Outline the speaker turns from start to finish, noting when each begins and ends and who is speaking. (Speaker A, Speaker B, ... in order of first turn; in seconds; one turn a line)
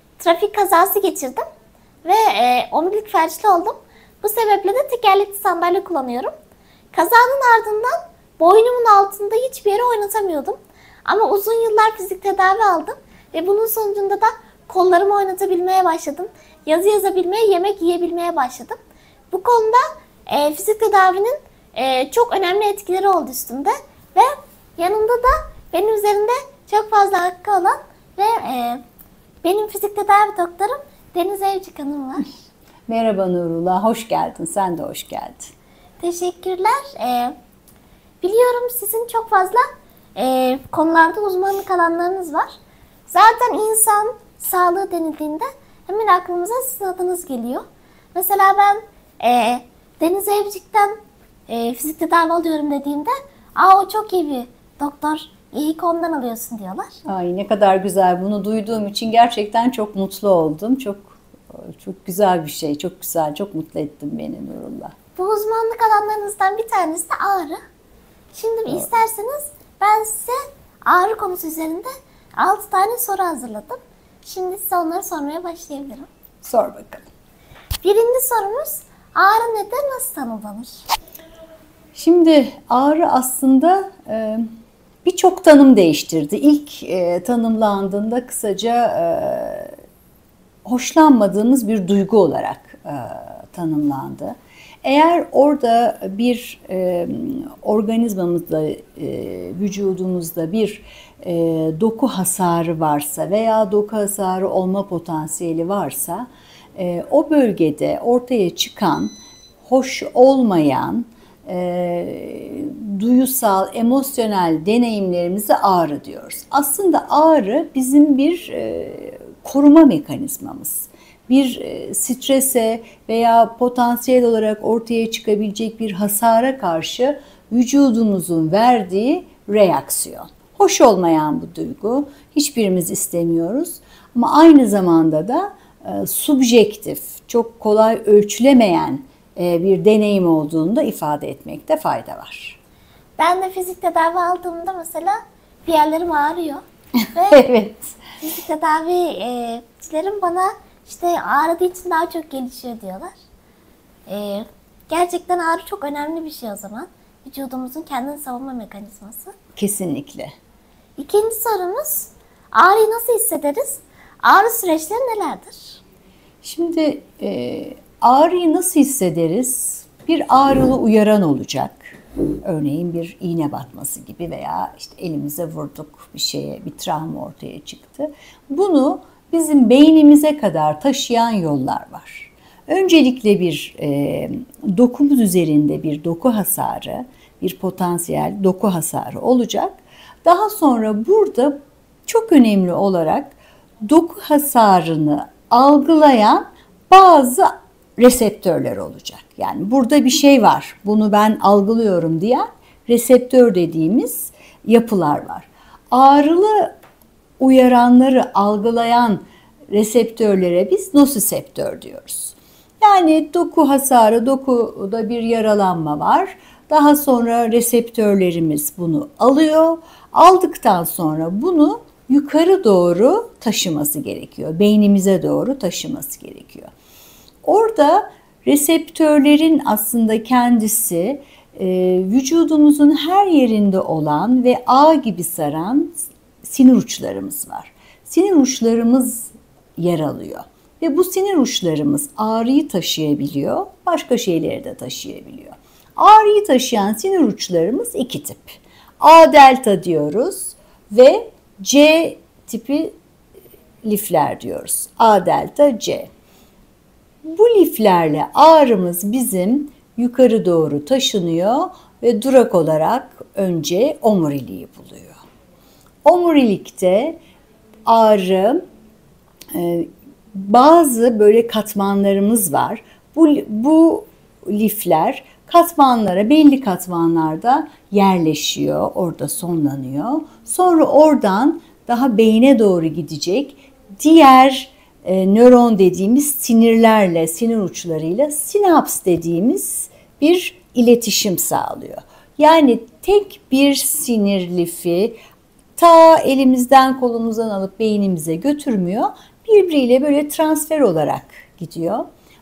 Speaker A: 0.2-1.4
Speaker A: 2.0-6.3
Speaker A: 6.9-18.8
Speaker A: 19.3-28.8
Speaker A: 29.4-32.3
Speaker B: 32.9-35.5
Speaker A: 36.0-37.3
Speaker A: 38.2-39.6
Speaker A: 40.1-42.5
Speaker A: 43.1-50.9
Speaker A: 51.5-56.9
Speaker B: 57.0-64.9
Speaker A: 65.2-67.6
Speaker A: 68.3-76.1
Speaker B: 76.4-77.0
Speaker A: 77.8-80.7
Speaker B: 81.9-84.4
Speaker B: 85.0-89.7
Speaker B: 90.6-142.6
Speaker A: 143.2-146.6
Speaker A: 147.1-147.4
Speaker B: 147.3-147.9
Speaker A: 148.2-153.1
Speaker A: 154.1-159.3
Speaker B: 159.6-160.3
Speaker A: 161.0-165.8
Speaker B: 166.4-191.6
Speaker B: 192.1-206.7
Speaker B: 207.4-226.7
Speaker B: 227.4-252.9
Speaker B: 253.8-256.1
Speaker B: 257.2-265.2
Speaker B: 266.0-267.2
Speaker B: 267.9-268.6
Speaker B: 269.5-295.1
Speaker B: 295.8-302.0